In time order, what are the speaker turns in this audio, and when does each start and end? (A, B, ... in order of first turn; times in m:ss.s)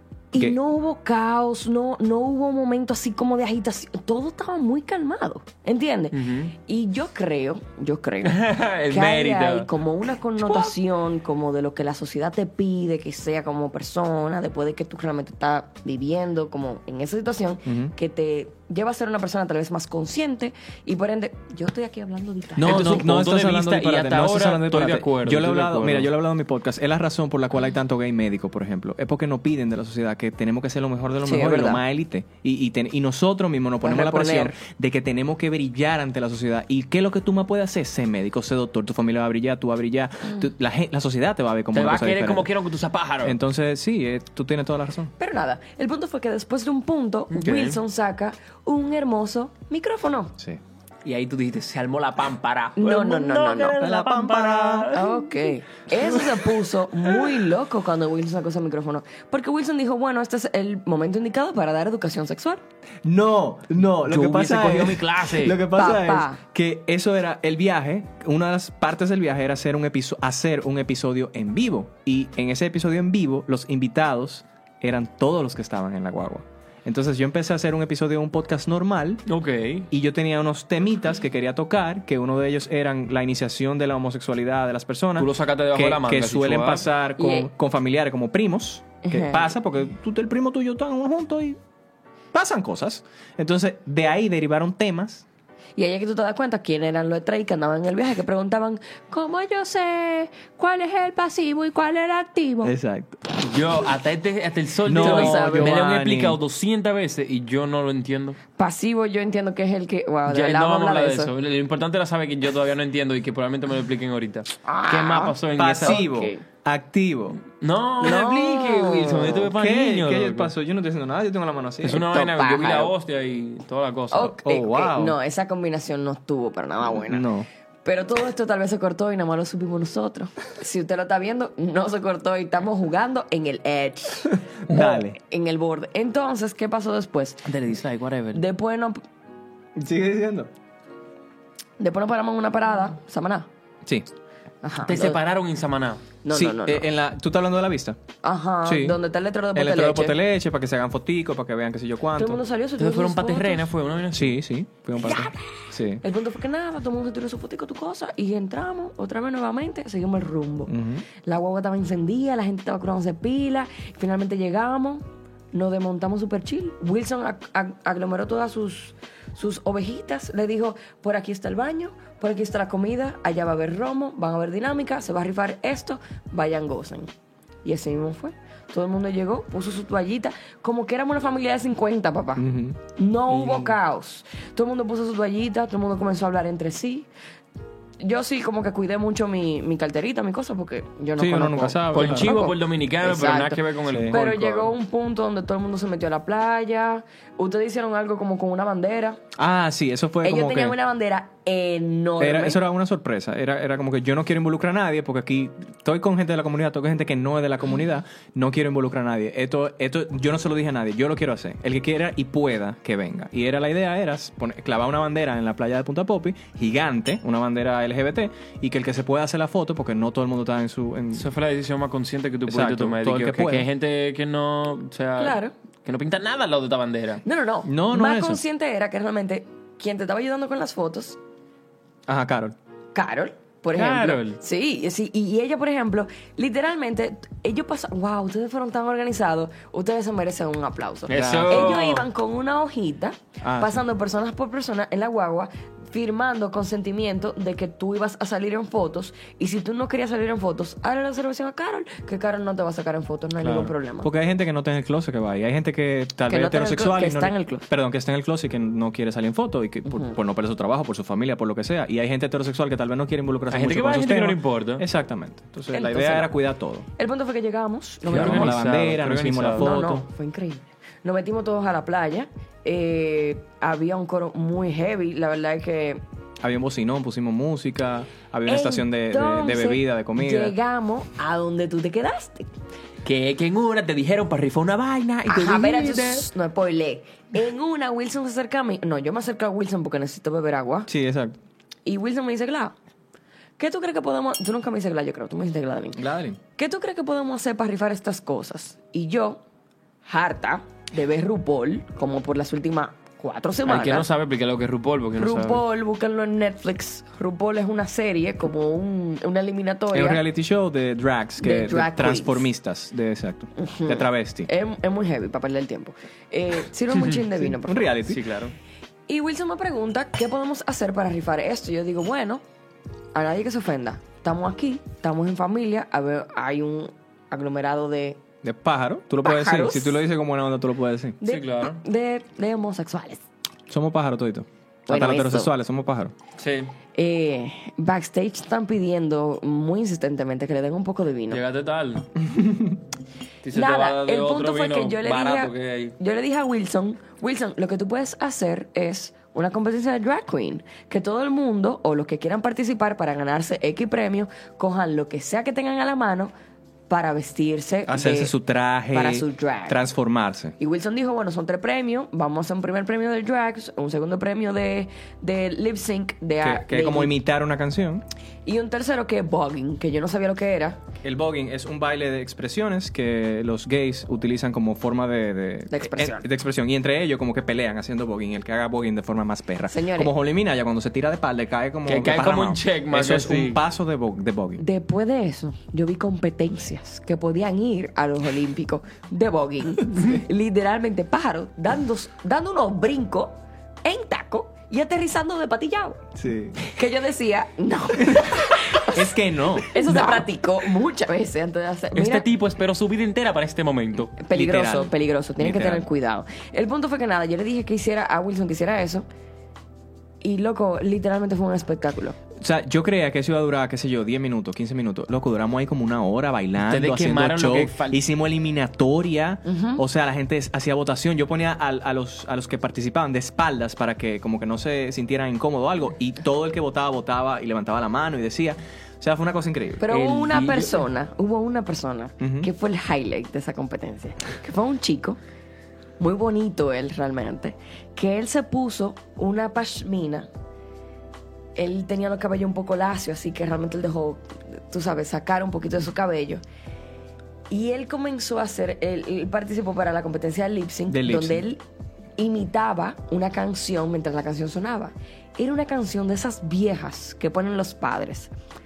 0:00.3-0:23.0 A
0:06.1-0:06.5 B
0:08.2-0:09.7 B
0:17.6-0:17.9 C
0:22.6-0:42.5 C
0:22.6-0:26.1 B
0:31.2-0:31.8 A
0:33.8-0:34.5 A
0:41.7-0:43.4 B
0:43.2-0:45.1 C
0:45.2-0:50.3 A
0:47.3-0:47.8 B
0:51.0-0:55.3 B
0:52.8-0:53.8 A
0:53.8-0:54.9 C
0:54.9-1:02.6 A
1:03.0-1:19.2 C
1:04.0-1:05.6 B
1:05.7-1:06.4 A
1:19.2-1:19.9 B
1:19.9-1:31.6 C
1:25.2-1:26.9 B
1:27.2-1:27.5 A
1:29.0-1:29.5 A
1:32.3-1:35.2 C
1:35.8-1:42.7 A
1:42.6-1:43.2 C
1:43.4-1:48.4 B
1:44.8-1:46.4 C
1:45.0-1:45.8 A
1:48.6-1:51.3 A
1:50.3-1:56.0 B
1:54.6-1:56.4 A
1:55.6-1:57.4 C
1:57.6-2:00.5 B
1:58.0-1:59.5 A
1:59.5-2:02.1 C
2:01.8-2:04.3 B
2:02.0-2:02.9 A
2:04.1-2:07.3 A
2:04.3-2:05.2 C
2:06.8-2:07.5 C
2:07.8-2:17.4 A
2:14.7-2:15.2 C
2:17.4-2:18.4 B
2:18.3-2:19.0 A
2:19.8-2:20.5 C
2:21.8-2:23.5 A
2:24.6-2:25.2 A
2:24.8-2:26.0 B
2:26.2-2:26.8 A
2:26.3-2:28.0 C
2:28.2-2:30.2 A
2:28.6-2:29.0 C
2:29.5-2:32.4 C
2:32.2-2:33.7 A
2:32.8-2:34.4 B
2:34.1-2:36.0 C
2:35.0-2:57.1 A
2:40.7-2:41.0 C
2:57.6-3:07.1 A
3:02.4-3:03.8 C
3:08.0-3:19.2 A
3:11.2-3:12.4 C
3:11.9-3:14.7 B
3:13.9-3:14.2 C
3:19.4-3:20.8 C
3:20.2-3:22.6 A
3:22.2-3:41.3 C
3:41.1-3:47.2 B
3:42.5-3:43.7 C
3:45.2-3:45.5 A
3:47.2-3:51.2 A
3:47.6-3:48.4 C
3:52.1-3:52.5 C
3:52.9-4:14.1 A
3:53.7-3:54.4 B
4:01.1-4:02.1 B
4:01.1-4:01.8 C
4:03.4-4:03.8 C
4:13.4-4:13.7 B
4:14.0-4:26.8 C
4:16.3-4:17.6 A
4:19.9-4:20.1 A
4:23.5-4:24.8 B
4:25.7-4:26.3 A
4:27.0-4:28.6 A
4:28.0-4:30.0 C
4:28.1-4:29.8 B
4:29.5-4:36.0 A
4:36.4-4:40.6 C
4:38.5-4:42.5 A
4:43.0-4:46.2 B
4:45.3-4:50.9 A
4:50.9-4:51.4 C
4:51.8-4:52.7 A
4:53.6-4:56.0 A
4:56.0-4:56.4 C
4:56.6-4:59.4 A
5:00.0-5:04.1 A
5:03.6-5:05.6 B
5:05.2-5:10.2 A
5:09.9-5:14.5 C
5:11.4-5:12.5 A
5:13.6-5:18.0 A
5:16.9-5:17.2 B
5:17.4-5:18.2 C
5:18.1-5:18.5 B
5:19.1-5:22.4 A
5:23.1-5:28.2 A
5:28.4-5:31.2 C
5:29.2-5:30.0 A
5:31.2-5:33.2 A
5:31.2-5:31.8 B
5:33.7-5:36.1 C
5:34.9-5:35.5 A
5:36.4-5:36.7 B
5:36.9-5:41.4 A
5:41.3-5:42.0 B
5:42.3-5:42.8 C
5:43.4-5:45.9 B
5:43.5-5:56.3 A
5:56.9-5:58.3 A
5:57.9-6:00.6 C
5:58.9-5:59.8 A
6:00.6-6:07.1 A
6:06.4-6:08.0 C
6:08.4-6:10.8 A
6:11.0-6:24.6 C
6:15.7-6:16.2 A
6:19.7-6:20.1 A
6:21.8-6:23.6 B
6:24.6-6:36.0 A
6:36.2-6:36.6 C
6:36.6-6:42.2 A
6:38.2-6:40.1 C
6:41.9-6:44.2 B
6:44.2-6:49.0 A
6:44.3-6:45.8 C
6:50.2-6:52.2 A
6:52.4-7:09.9 C
6:56.6-6:58.0 B
6:59.4-6:59.8 A
7:09.8-7:15.2 A
7:09.9-7:10.8 B
7:12.2-7:12.5 C
7:16.0-7:20.3 A
7:21.6-7:26.4 A
7:27.5-7:31.6 A
7:30.9-7:31.4 C
7:32.2-7:38.3 A